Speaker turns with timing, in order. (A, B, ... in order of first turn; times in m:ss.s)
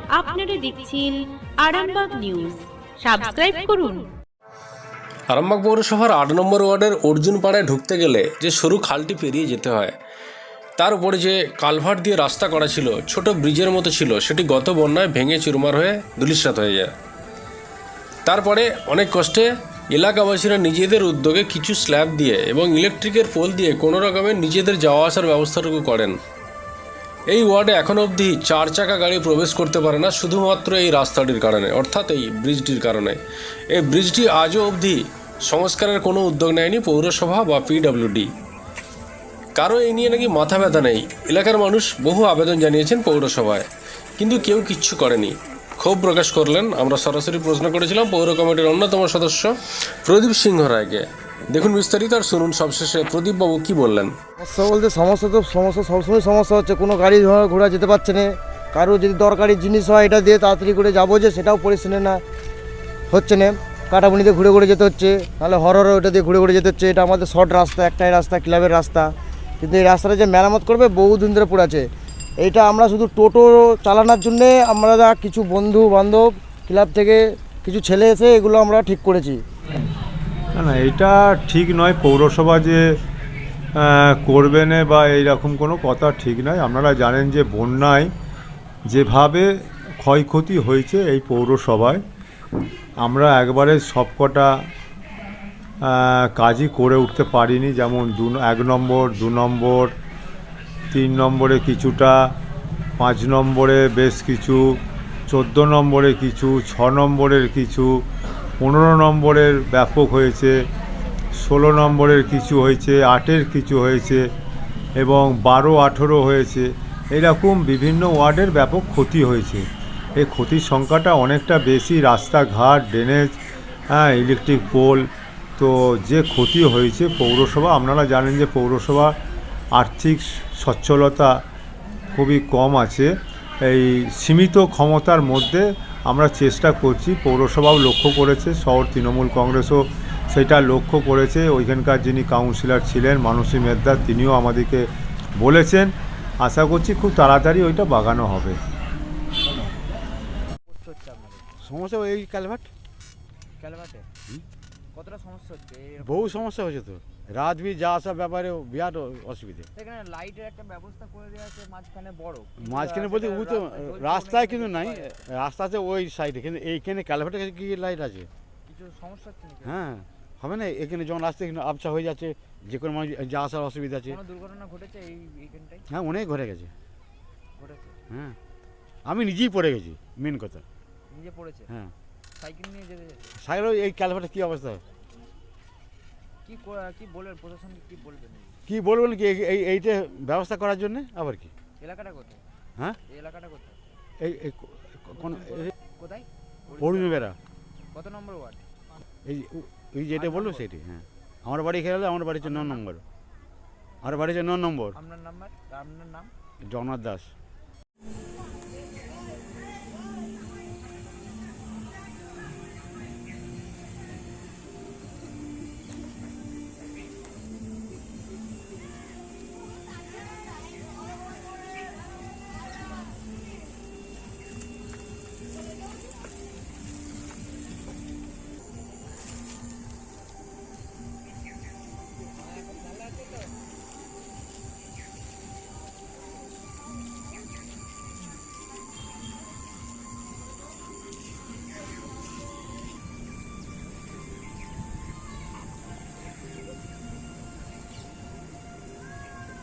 0:00.1-0:04.1 A
0:05.3-0:09.9 B
0:10.8-0:16.9 B
0:18.2-0:26.2 B
0:27.3-0:33.2 B
0:33.7-0:38.3 B
0:39.6-0:43.6 B
0:44.2-0:49.5 B
0:50.0-0:54.1 B
0:54.4-1:02.2 C
1:03.1-1:11.8 C
1:12.4-1:19.4 C
1:20.5-1:22.8 D
1:23.7-1:28.1 D
1:28.9-1:32.0 D
1:33.0-1:34.6 D
1:35.8-1:39.9 D
1:40.9-1:42.3 D
1:43.0-1:48.0 D
1:48.6-1:50.6 D
1:51.4-1:54.2 D
1:55.0-1:59.6 D
2:00.2-2:03.4 D
2:03.9-2:05.0 D
2:05.6-2:09.1 D
2:09.7-2:11.4 D
2:12.1-2:28.6 D
2:30.7-2:31.4 E
2:31.6-2:32.7 F
2:33.6-2:34.1 E
2:34.9-2:36.4 E
2:36.0-2:39.7 F
2:39.7-2:45.3 E
2:42.6-2:48.3 F
2:48.6-2:49.8 E
2:49.6-2:54.2 F
2:54.1-2:55.9 E
2:55.9-2:56.7 F
2:57.6-2:58.0 E
2:58.1-2:58.4 F
2:59.0-3:00.6 F
3:01.1-3:01.7 E
3:02.4-3:03.3 E
3:03.4-3:04.8 F
3:06.4-3:08.6 E
3:08.7-3:11.5 F
3:11.8-3:12.4 E
3:13.1-3:14.0 E
3:14.2-3:15.7 F
3:15.1-3:17.2 E
3:16.8-3:17.4 F
3:17.9-3:18.6 E
3:19.2-3:23.0 F
3:20.1-3:20.7 E
3:22.4-3:22.8 E
3:24.0-3:25.0 F
3:24.9-3:26.3 E
3:26.6-3:27.3 F